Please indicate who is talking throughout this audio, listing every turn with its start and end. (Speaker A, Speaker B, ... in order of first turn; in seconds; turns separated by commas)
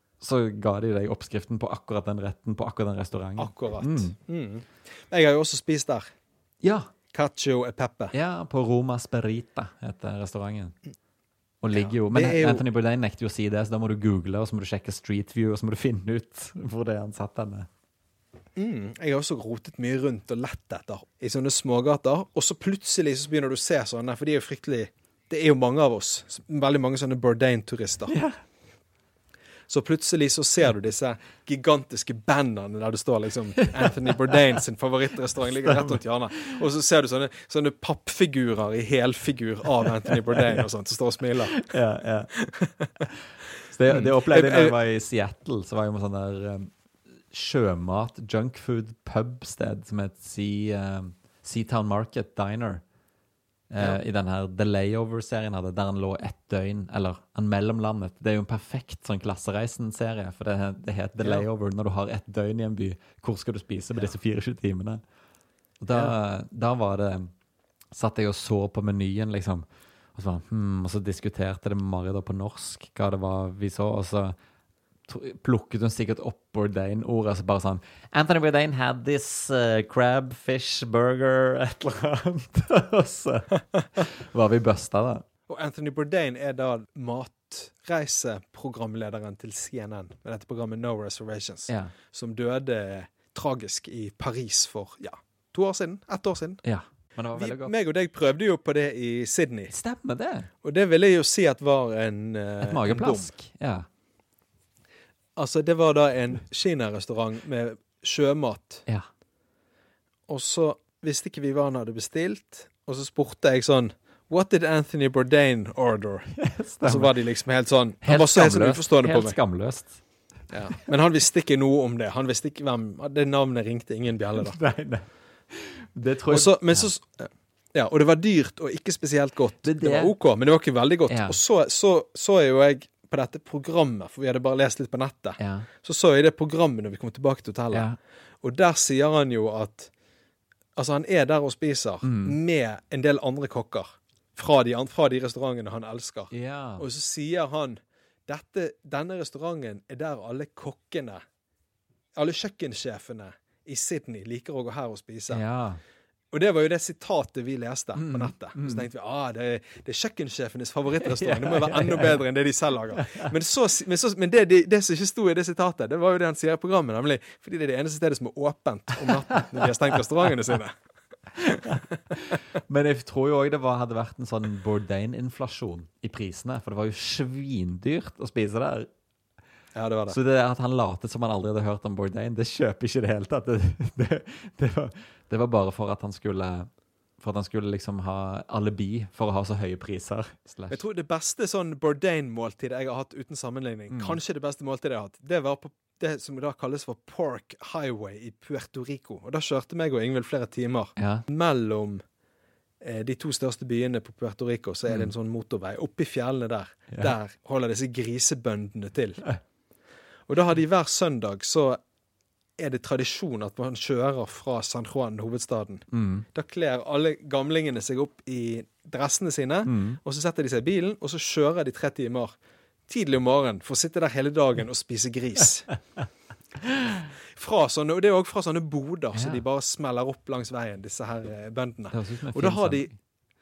Speaker A: 0.2-4.2, Speaker B: 3.4-6.1, Speaker A: 6.6-6.9, Speaker B: 7.1-8.1, Speaker A: 8.1-10.7, Speaker A: 11.6-17.7, Speaker B: 11.7-12.7, Speaker B: 18.6-28.1, Speaker A: 28.1-28.4, Speaker B: 29.7-41.6, Speaker A: 33.6-34.3, Speaker A: 35.4-36.6, Speaker A: 40.1-40.7, Speaker A: 41.5-42.3, Speaker B: 42.4-42.9, Speaker A: 43.0-46.7, Speaker B: 43.9-44.8, Speaker A: 47.3-52.8, Speaker A: 53.7-65.0, Speaker B: 61.2-61.5, Speaker A: 65.8-67.3, Speaker A: 67.9-74.3, Speaker A: 75.1-85.2, Speaker B: 85.5-96.6, Speaker A: 91.7-91.9, Speaker A: 96.6-97.7, Speaker B: 97.3-99.7, Speaker A: 99.7-100.5, Speaker B: 100.6-103.3, Speaker A: 102.6-103.9, Speaker B: 105.4-108.8, Speaker B: 110.3-116.3, Speaker A: 116.3-117.2, Speaker B: 116.8-119.4, Speaker A: 118.0-120.0, Speaker B: 120.5-124.6, Speaker A: 124.4-126.9, Speaker B: 126.3-137.9, Speaker A: 129.6-130.1, Speaker A: 131.1-131.4, Speaker A: 135.4-135.7, Speaker A: 137.7-138.0, Speaker B: 138.4-139.9, Speaker B: 140.8-151.2, Speaker A: 142.0-142.4, Speaker A: 146.3-146.8, Speaker B: 152.2-155.4, Speaker A: 155.3-155.8, Speaker B: 156.3-170.8, Speaker A: 157.9-158.9, Speaker A: 161.0-162.2, Speaker A: 163.0-163.3, Speaker A: 169.1-170.3, Speaker A: 171.3-178.9, Speaker B: 179.8-180.2, Speaker A: 180.1-186.7, Speaker A: 187.2-190.8, Speaker B: 190.7-202.0, Speaker A: 193.9-194.2, Speaker A: 201.0-201.2, Speaker B: 202.8-209.2, Speaker B: 210.3-211.8, Speaker B: 212.6-222.4, Speaker A: 215.9-216.3, Speaker A: 219.7-220.0, Speaker B: 222.9-225.7, Speaker B: 227.3-232.9, Speaker A: 229.1-229.4, Speaker A: 231.9-233.0